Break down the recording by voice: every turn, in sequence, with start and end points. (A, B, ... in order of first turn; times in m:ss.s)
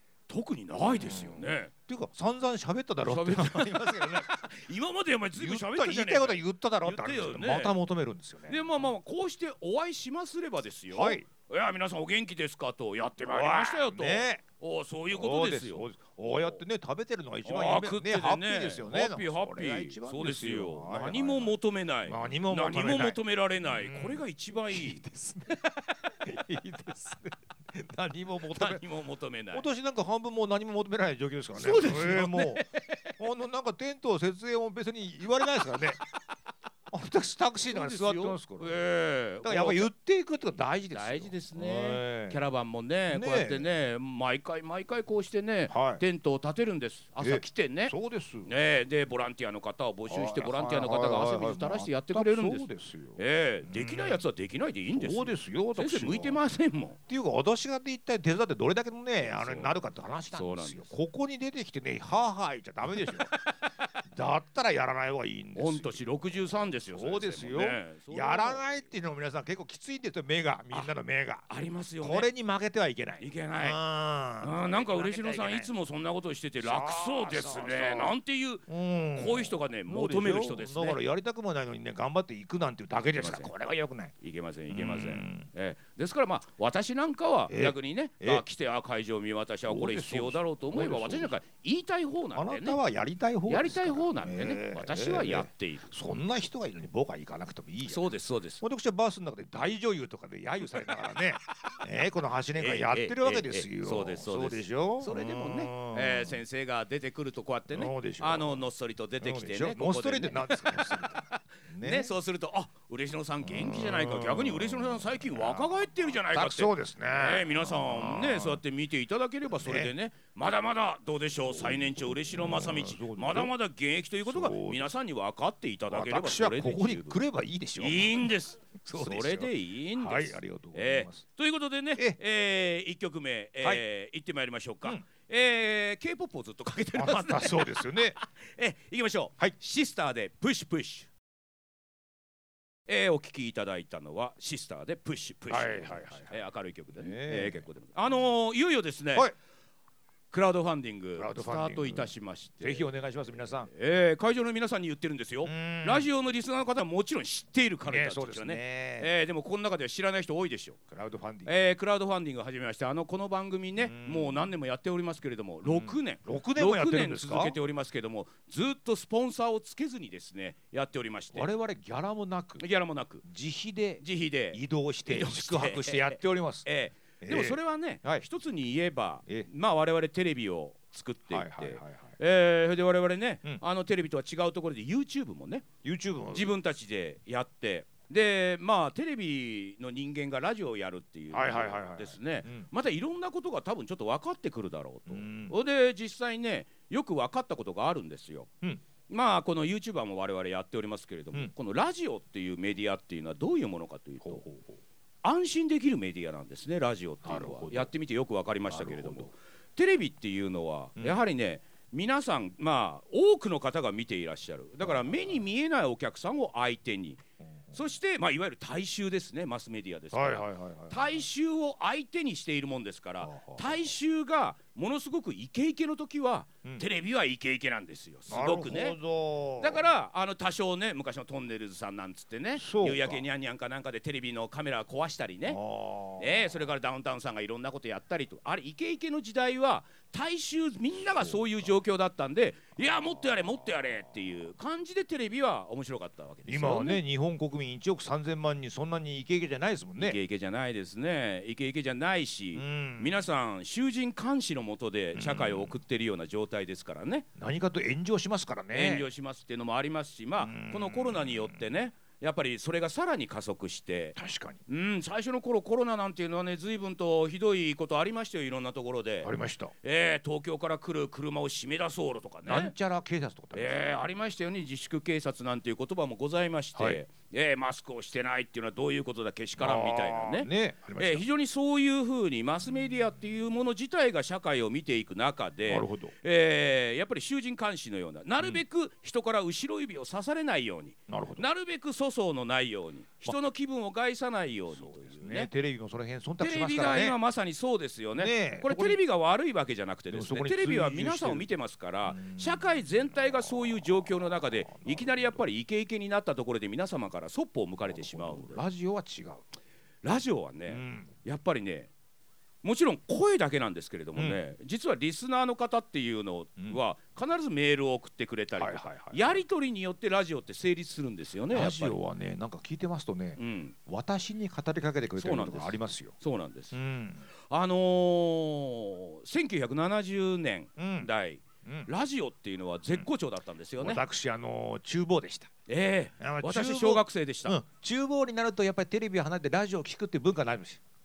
0:00.3-0:01.7 A
0:00.9-0:04.5 B
0:03.0-0:07.7 A
0:05.4-0:08.9 B
0:08.5-0:15.8 A
0:10.9-0:11.3 B
0:13.2-0:14.4 B
0:15.1-0:21.5 B
0:17.4-0:25.0 A
0:22.0-0:28.8 B
0:28.5-0:29.6 A
0:29.5-0:32.6 B
0:31.5-0:33.1 A
0:33.2-0:36.0 B
0:36.9-0:38.7 B
0:37.7-0:39.9 A
0:39.4-0:42.4 B
0:40.9-0:47.9 A
0:43.1-0:43.7 B
0:45.7-0:46.0 B
0:47.2-0:48.5 B
0:48.4-0:57.0 A
0:50.1-0:54.2 B
0:54.9-0:56.4 B
0:57.1-1:03.3 B
0:59.2-0:59.7 A
1:00.3-1:00.9 A
1:03.0-1:03.5 A
1:04.0-1:11.5 B
1:05.6-1:08.7 A
1:11.5-1:12.3 A
1:12.0-1:15.7 B
1:13.2-1:13.8 A
1:14.4-1:21.0 A
1:16.6-1:18.2 B
1:18.7-1:24.1 B
1:23.2-1:23.5 A
1:24.2-1:32.8 A
1:24.7-1:25.5 B
1:27.5-1:28.4 B
1:29.7-1:31.4 B
1:32.3-1:38.1 B
1:33.5-1:35.9 A
1:37.8-1:38.6 A
1:38.6-1:46.4 B
1:42.6-2:07.2 A
1:47.7-1:48.6 B
1:49.2-1:52.1 B
1:53.4-1:58.6 B
1:59.5-1:59.9 B
2:01.4-2:03.5 B
2:04.2-2:04.9 B
2:05.9-2:08.3 B
2:07.8-2:21.1 A
2:08.8-2:11.2 B
2:16.9-2:18.2 B
2:22.9-2:29.3 A
2:25.5-2:26.4 B
2:26.9-2:27.7 B
2:30.3-2:32.9 A
2:31.2-2:33.7 B
2:33.7-2:40.8 A
2:35.4-2:36.1 B
2:37.8-2:39.1 B
2:40.9-2:41.5 B
2:41.4-2:51.5 A
2:43.8-2:44.5 B
2:45.6-2:47.6 B
2:51.3-2:52.6 B
2:52.6-2:53.2 A
2:53.2-2:56.7 B
2:54.0-3:05.6 A
2:57.2-2:58.2 B
3:01.3-3:02.1 B
3:05.8-3:06.5 B
3:06.3-3:18.5 A
3:11.3-3:12.7 B
3:15.1-3:15.6 B
3:19.1-3:24.4 A
3:24.2-3:24.8 B
3:25.2-3:37.2 A
3:27.2-3:27.9 B
3:28.7-3:29.3 B
3:34.8-3:35.4 B
3:37.7-3:49.0 A
3:40.1-3:41.2 B
3:43.2-3:43.9 B
3:48.3-3:49.9 B
3:49.6-3:55.6 A
3:52.6-3:53.2 B
3:55.5-3:56.6 B
3:56.2-4:07.0 A
4:01.0-4:01.7 B
4:03.1-4:03.7 B
4:06.4-4:10.2 B
4:10.0-4:17.3 A
4:12.5-4:13.2 B
4:15.1-4:15.8 B
4:17.4-4:19.1 B
4:18.7-4:24.2 A
4:20.4-4:21.7 B
4:24.2-4:24.6 B
4:24.7-4:29.3 A
4:29.2-4:29.7 B
4:29.8-4:32.7 A
4:32.4-4:33.9 B
4:33.5-4:55.5 A
4:36.7-4:37.0 B
4:39.6-4:41.2 B
4:45.7-4:46.1 B
4:51.1-4:51.4 B
4:54.7-4:57.2 B
4:56.4-5:08.6 A
4:58.2-4:59.0 B
5:00.1-5:01.5 B
5:02.0-5:05.4 B
5:07.9-5:09.4 B
5:10.0-5:11.9 A
5:10.7-5:11.1 B
5:12.6-5:22.0 A
5:18.6-5:19.4 B
5:21.5-5:26.1 B
5:23.4-5:23.7 A
5:25.2-5:26.8 A
5:26.7-5:27.3 B
5:27.5-5:34.0 A
5:30.8-5:31.1 B
5:33.8-5:35.5 B
5:35.7-5:37.6 A
5:36.2-5:40.8 B